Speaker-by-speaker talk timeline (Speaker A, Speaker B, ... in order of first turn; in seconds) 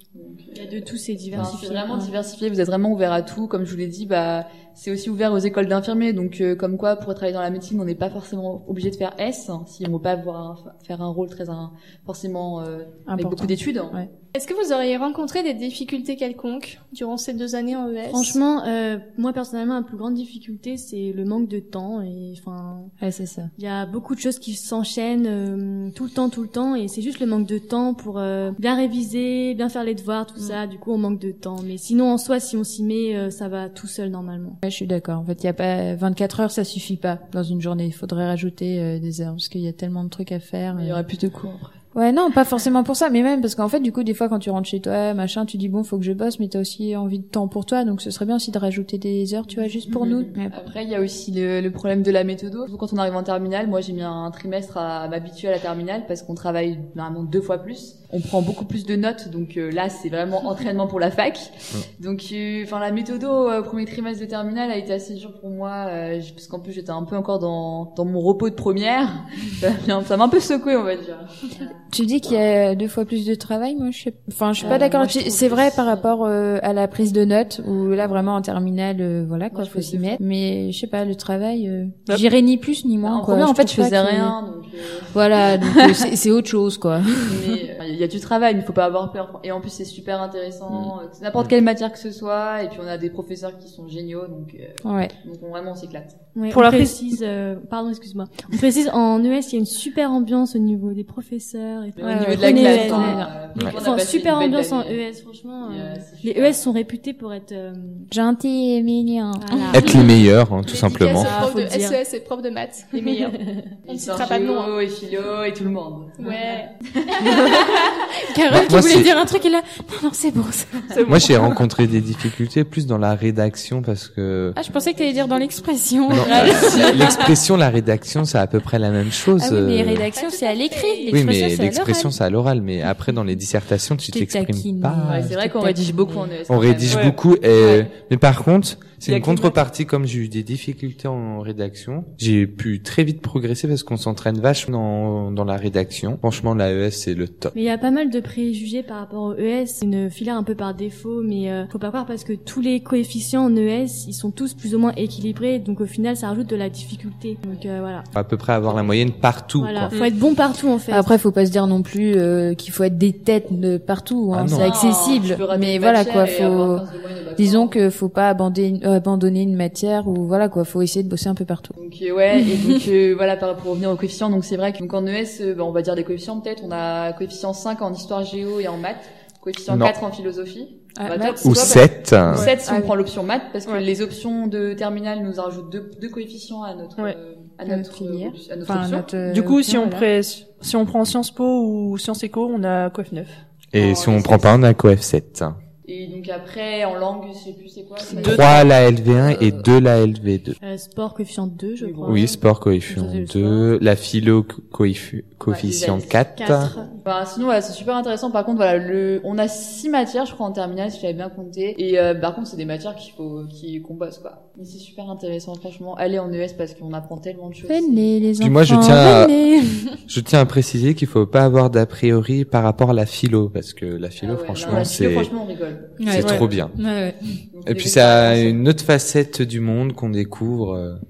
Speaker A: 0.1-14.0, 40.7-41.7, 49.9-71.3, 74.6-76.1, 79.5-80.2, 83.0-85.9, 87.3-96.1, 102.0-105.0, 105.6-106.6, 113.9-116.2, 117.0-117.9, 125.0-125.5, 126.3-127.4, 135.1-137.9, 139.1-139.5, 164.5-167.8, 171.8-189.2, 193.8-194.6, 195.8-199.7, 201.8-202.4, 205.5-206.2, 206.7-218.3, 224.2-226.6, 227.5-228.6
Speaker B: 0.5-2.1, 18.1-22.9, 23.6-34.6, 96.3-108.1, 109.4-110.2, 111.1-112.0, 147.5-158.1, 159.6-161.1, 200.6-203.7, 206.4-206.9
Speaker C: 13.1-14.1, 23.0-23.5, 34.6-41.0, 41.9-50.5, 71.9-84.4, 85.1-87.5, 94.8-95.1, 102.0-103.3, 108.1-110.0, 117.3-121.5, 124.6-127.1, 129.3-132.1, 134.1-136.3, 160.9-171.7, 181.0-181.8, 182.5-182.9, 187.7-190.1, 198.1-198.4, 217.7-220.0, 226.0-227.2
Speaker D: 14.3-18.4, 109.9-110.1, 110.7-113.4, 113.9-114.7, 116.2-116.7, 130.1-131.2
Speaker E: 109.7-111.3, 118.5-119.1, 121.0-124.6, 126.1-130.1, 131.1-135.2, 136.5-147.5, 158.2-160.0, 164.3-164.8, 179.7-179.9, 181.4-182.5, 193.7-195.6, 198.2-200.6, 202.1-206.7, 218.4-219.4, 220.1-225.3, 226.1-226.8, 227.7-231.0
Speaker F: 189.3-191.4